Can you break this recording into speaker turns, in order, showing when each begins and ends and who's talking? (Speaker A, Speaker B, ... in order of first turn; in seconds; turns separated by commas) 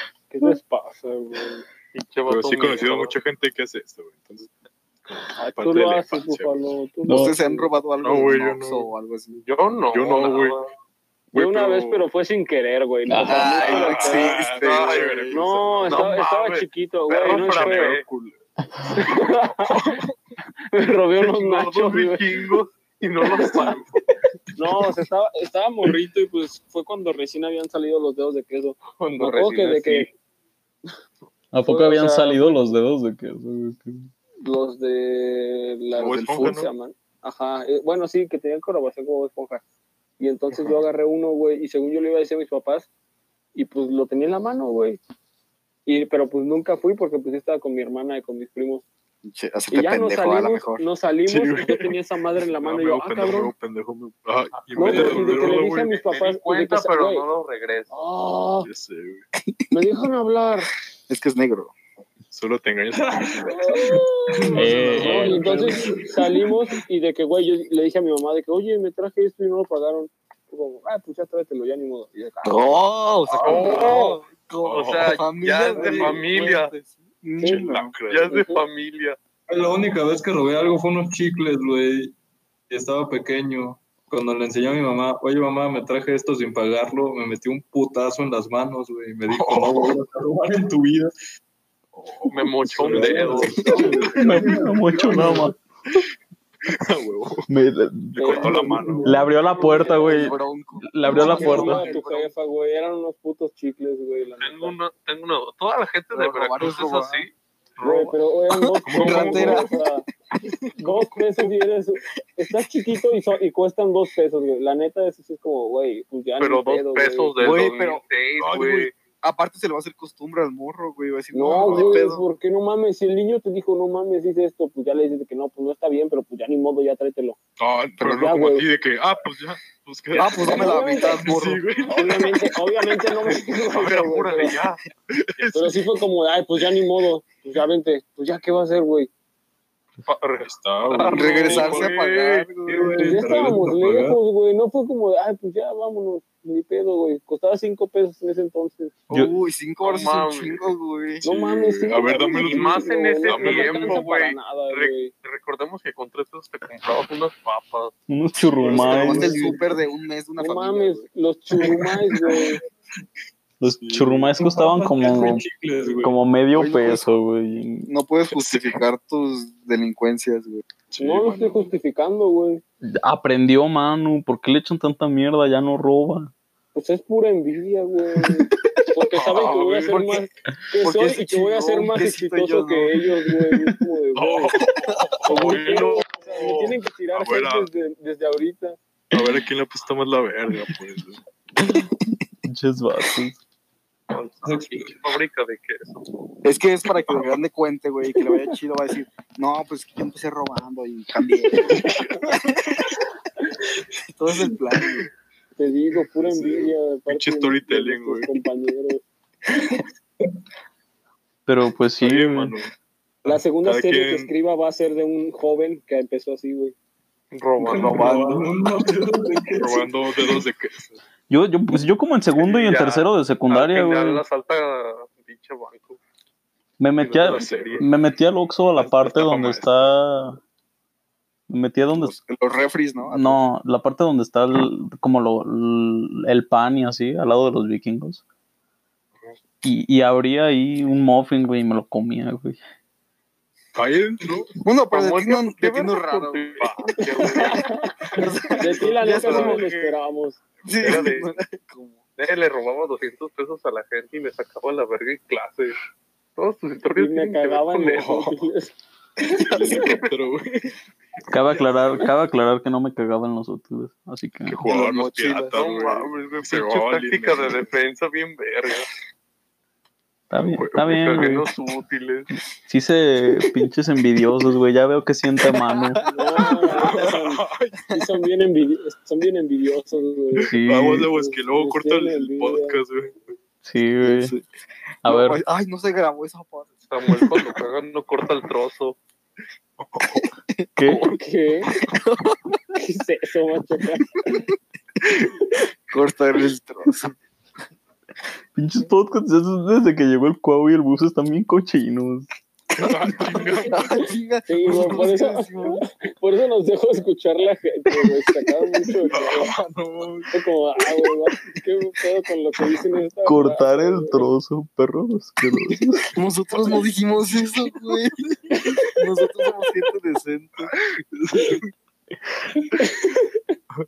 Speaker A: 0.3-1.6, Speaker B: 1.9-3.2, Speaker C: 2.3-4.5, Speaker C: 5.1-6.7, Speaker A: 5.3-7.7, Speaker D: 7.1-7.3, Speaker E: 7.1-9.4, Speaker C: 8.0-8.9, Speaker B: 9.4-10.7, Speaker C: 9.9-10.6, Speaker A: 11.3-14.4, Speaker C: 11.3-12.0, Speaker D: 13.1-13.6, Speaker E: 13.2-15.3, Speaker C: 13.4-16.3, Speaker B: 14.0-18.1, Speaker A: 15.3-18.0, Speaker C: 17.3-18.4, Speaker C: 18.9-20.1, Speaker A: 18.9-19.8, Speaker A: 20.7-22.3, Speaker B: 21.2-23.9, Speaker A: 23.4-23.8, Speaker C: 23.4-23.8, Speaker A: 24.6-30.1, Speaker B: 29.0-30.1, Speaker D: 31.5-34.1, Speaker A: 31.7-32.8, Speaker A: 34.4-39.6, Speaker C: 36.0-36.7, Speaker A: 40.2-42.9, Speaker A: 43.5-45.0, Speaker A: 45.9-48.9, Speaker E: 49.2-50.9, Speaker A: 49.7-53.5, Speaker C: 51.3-55.9, Speaker B: 54.5-57.9, Speaker F: 54.7-55.7, Speaker A: 54.8-57.2, Speaker A: 57.9-58.7, Speaker C: 58.6-59.2, Speaker A: 59.7-60.7, Speaker E: 61.1-61.7, Speaker C: 62.3-63.7, Speaker F: 63.1-66.6, Speaker A: 63.5-72.9, Speaker D: 64.5-65.6, Speaker C: 64.6-65.9, Speaker E: 72.4-77.9, Speaker C: 73.4-73.8, Speaker B: 73.4-74.2, Speaker A: 73.4-74.2, Speaker C: 74.7-75.2, Speaker B: 74.7-76.7, Speaker C: 75.7-76.3, Speaker A: 77.4-77.7, Speaker C: 77.4-78.3, Speaker B: 78.1-79.2, Speaker A: 78.3-78.6, Speaker F: 79.5-82.1, Speaker F: 82.7-91.1, Speaker C: 89.3-90.0, Speaker C: 92.0-95.5, Speaker B: 92.3-94.3, Speaker F: 92.7-95.5, Speaker D: 94.1-95.6, Speaker C: 96.7-97.5, Speaker D: 97.5-101.8, Speaker C: 98.2-99.3, Speaker A: 98.2-98.7, Speaker F: 98.7-99.2, Speaker A: 99.6-100.3, Speaker E: 99.9-102.0, Speaker A: 101.1-104.8, Speaker F: 101.1-101.4, Speaker C: 101.2-101.6, Speaker B: 101.2-102.3, Speaker B: 104.4-108.2, Speaker E: 106.1-107.3, Speaker A: 107.8-110.1, Speaker E: 108.8-109.7, Speaker C: 108.8-109.6, Speaker B: 109.0-109.6, Speaker C: 110.8-111.2, Speaker A: 110.8-117.3, Speaker B: 116.4-118.9, Speaker E: 117.4-118.0, Speaker C: 118.4-118.9, Speaker E: 119.2-122.2, Speaker A: 121.3-127.4, Speaker C: 121.5-122.0, Speaker C: 127.6-133.4, Speaker A: 128.0-128.7, Speaker B: 130.2-130.7, Speaker E: 130.2-131.7, Speaker A: 130.4-131.3, Speaker A: 131.9-134.6, Speaker B: 133.6-134.8, Speaker C: 135.1-135.9, Speaker A: 135.5-139.1, Speaker B: 140.0-142.5, Speaker C: 140.4-141.9, Speaker E: 141.1-143.1, Speaker F: 142.7-144.2, Speaker A: 143.0-148.9, Speaker E: 149.1-151.2, Speaker B: 149.8-150.7, Speaker C: 151.2-154.0, Speaker A: 151.2-155.1, Speaker B: 152.2-157.9, Speaker D: 158.1-159.4, Speaker C: 158.6-159.5, Speaker E: 158.7-161.1, Speaker F: 159.0-159.5, Speaker A: 160.4-162.6, Speaker D: 163.6-165.4, Speaker C: 163.7-164.4, Speaker F: 164.4-166.2, Speaker D: 166.0-167.9, Speaker E: 166.5-167.1, Speaker E: 167.9-170.6, Speaker C: 168.3-168.8, Speaker C: 170.9-171.7, Speaker A: 171.0-172.6, Speaker D: 173.0-176.3, Speaker A: 176.8-184.6, Speaker C: 179.2-180.1, Speaker E: 179.9-180.2, Speaker E: 180.8-183.0, Speaker C: 184.2-187.7, Speaker E: 184.8-185.2, Speaker A: 185.2-188.8, Speaker B: 185.4-186.0, Speaker C: 189.1-191.2, Speaker D: 191.6-191.9, Speaker D: 192.5-193.4, Speaker B: 194.1-196.1, Speaker F: 194.4-195.1, Speaker E: 196.4-203.0, Speaker C: 197.1-197.4, Speaker C: 201.7-202.3, Speaker E: 204.1-205.1, Speaker A: 205.6-209.0, Speaker C: 206.2-208.4, Speaker F: 209.7-210.3, Speaker D: 211.5-212.6, Speaker C: 212.0-212.7, Speaker C: 213.2-214.3, Speaker A: 213.2-216.8, Speaker B: 217.3-218.2, Speaker F: 217.6-220.4, Speaker E: 217.7-218.5, Speaker C: 219.5-221.0, Speaker D: 221.3-224.2, Speaker B: 222.4-226.0, Speaker D: 226.8-230.4, Speaker B: 227.0-227.9, Speaker C: 227.2-227.8, Speaker C: 228.8-229.9, Speaker D: 231.5-232.2, Speaker E: 231.9-233.4, Speaker D: 233.1-238.2, Speaker D: 239.6-242.6, Speaker C: 243.8-244.5, Speaker E: 244.6-246.7, Speaker B: 244.9-247.8, Speaker A: 247.0-247.9, Speaker E: 248.1-250.0, Speaker A: 248.6-250.4, Speaker C: 248.8-249.4, Speaker B: 249.2-249.6, Speaker E: 250.7-252.0, Speaker B: 250.7-251.3, Speaker B: 252.2-255.8, Speaker B: 256.4-258.1, Speaker A: 257.0-258.7, Speaker C: 258.0-258.3, Speaker C: 259.3-260.7, Speaker D: 261.3-264.6, Speaker C: 264.5-267.7, Speaker E: 264.6-265.6, Speaker B: 265.5-268.9, Speaker D: 270.3-271.4, Speaker C: 270.4-271.0, Speaker B: 270.9-272.3, Speaker D: 272.7-276.0, Speaker A: 276.1-282.8, Speaker C: 276.4-277.9, Speaker E: 276.4-276.7, Speaker C: 280.4-283.2, Speaker D: 280.5-281.1, Speaker D: 283.6-284.3, Speaker E: 284.0-284.5, Speaker D: 285.0-285.4, Speaker E: 285.1-287.4, Speaker B: 286.9-289.0, Speaker C: 289.8-290.3, Speaker E: 290.1-290.7, Speaker D: 290.8-291.1, Speaker A: 290.9-291.7, Speaker E: 291.8-292.4, Speaker A: 292.8-294.4, Speaker E: 295.0-297.1, Speaker D: 298.6-302.3, Speaker C: 302.8-304.1, Speaker E: 302.8-305.8, Speaker A: 304.5-309.5, Speaker C: 304.6-305.1, Speaker C: 309.1-310.4, Speaker A: 310.3-314.3, Speaker D: 313.2-316.1, Speaker E: 316.1-320.7, Speaker A: 318.5-319.6, Speaker C: 320.6-321.7, Speaker A: 322.8-323.6